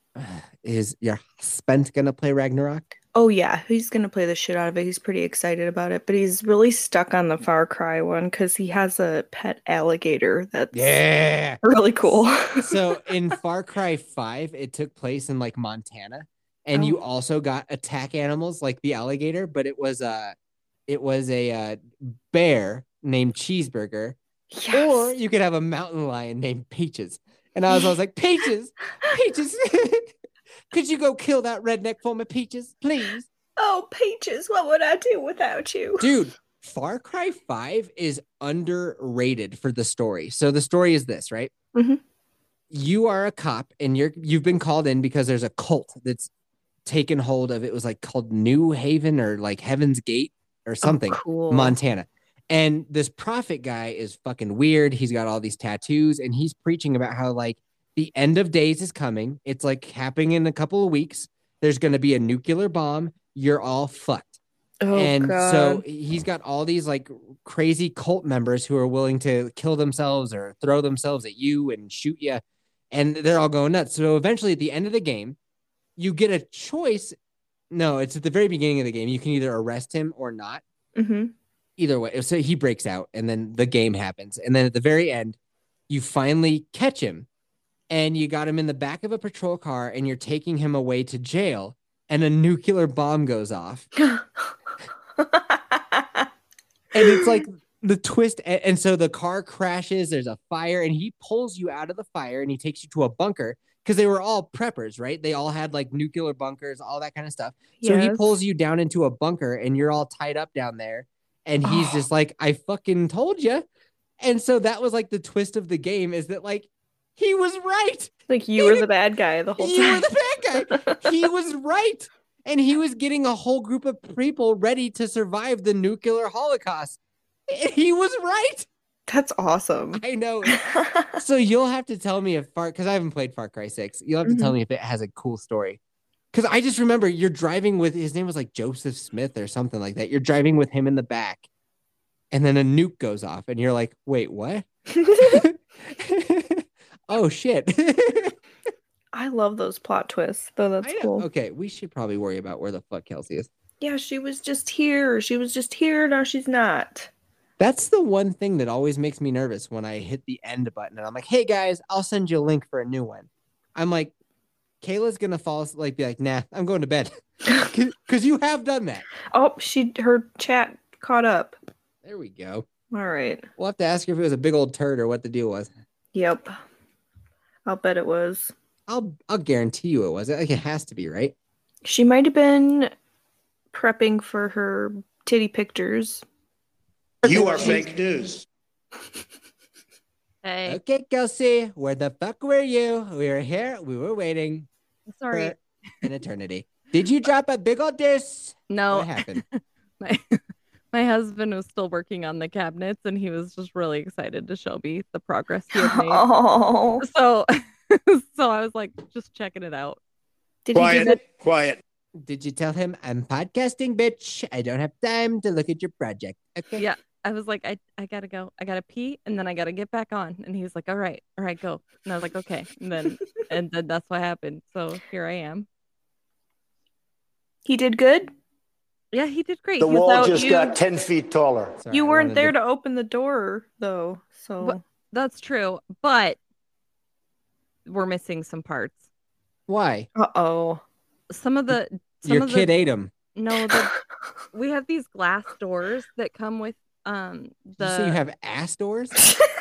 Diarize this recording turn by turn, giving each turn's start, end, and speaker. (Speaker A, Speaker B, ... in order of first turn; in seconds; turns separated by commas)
Speaker A: 0.1-2.9, Speaker B: 3.1-11.0, Speaker A: 10.7-20.3, Speaker B: 11.6-12.8, Speaker A: 20.9-24.2, Speaker B: 24.5-25.1, Speaker A: 24.7-30.1, Speaker A: 30.7-33.3, Speaker B: 33.6-36.1, Speaker A: 36.0-41.5, Speaker B: 41.7-42.0, Speaker A: 42.7-46.3, Speaker A: 46.9-64.3, Speaker B: 50.8-51.8, Speaker B: 64.8-65.8, Speaker A: 64.9-75.4, Speaker A: 76.0-77.2, Speaker A: 77.7-80.6, Speaker B: 81.0-81.3, Speaker A: 81.8-85.4, Speaker A: 85.9-87.3, Speaker A: 87.9-93.9, Speaker B: 94.0-94.5, Speaker B: 95.2-96.3, Speaker A: 96.9-113.7, Speaker B: 107.8-108.3, Speaker B: 111.6-112.0, Speaker A: 114.2-118.8, Speaker B: 118.3-120.0, Speaker A: 119.6-128.7, Speaker B: 120.9-121.1, Speaker B: 129.1-131.2, Speaker A: 129.9-130.6, Speaker A: 131.2-135.8, Speaker B: 134.2-134.5, Speaker A: 136.3-141.4, Speaker A: 142.3-148.3, Speaker B: 149.1-151.3, Speaker A: 150.8-153.5, Speaker B: 153.8-157.1, Speaker A: 157.6-164.1, Speaker A: 164.8-169.1, Speaker B: 169.3-171.6, Speaker A: 172.0-172.7, Speaker B: 172.9-173.5, Speaker A: 173.6-175.7, Speaker B: 176.1-176.6, Speaker B: 177.7-178.5, Speaker A: 178.9-181.3, Speaker B: 181.8-182.9, Speaker B: 183.7-186.2, Speaker C: 187.2-188.4, Speaker A: 187.2-187.7, Speaker D: 190.4-190.8, Speaker A: 190.7-194.7, Speaker D: 195.1-195.6, Speaker A: 195.3-199.4, Speaker D: 198.7-206.3, Speaker B: 205.7-207.0, Speaker D: 207.0-210.0, Speaker B: 210.6-211.2, Speaker C: 210.7-211.8, Speaker A: 212.2-216.8, Speaker D: 216.8-225.7, Speaker B: 227.7-228.3, Speaker D: 229.1-230.7, Speaker C: 229.8-231.8, Speaker B: 230.1-230.7, Speaker A: 231.8-232.5, Speaker B: 231.9-234.8, Speaker D: 234.6-236.4, Speaker D: 237.8-239.0, Speaker A: 239.7-240.1, Speaker B: 240.2-240.8, Speaker D: 241.3-242.8, Speaker A: 241.7-243.1, Speaker D: 243.3-243.9, Speaker D: 244.5-248.2, Speaker A: 247.8-249.1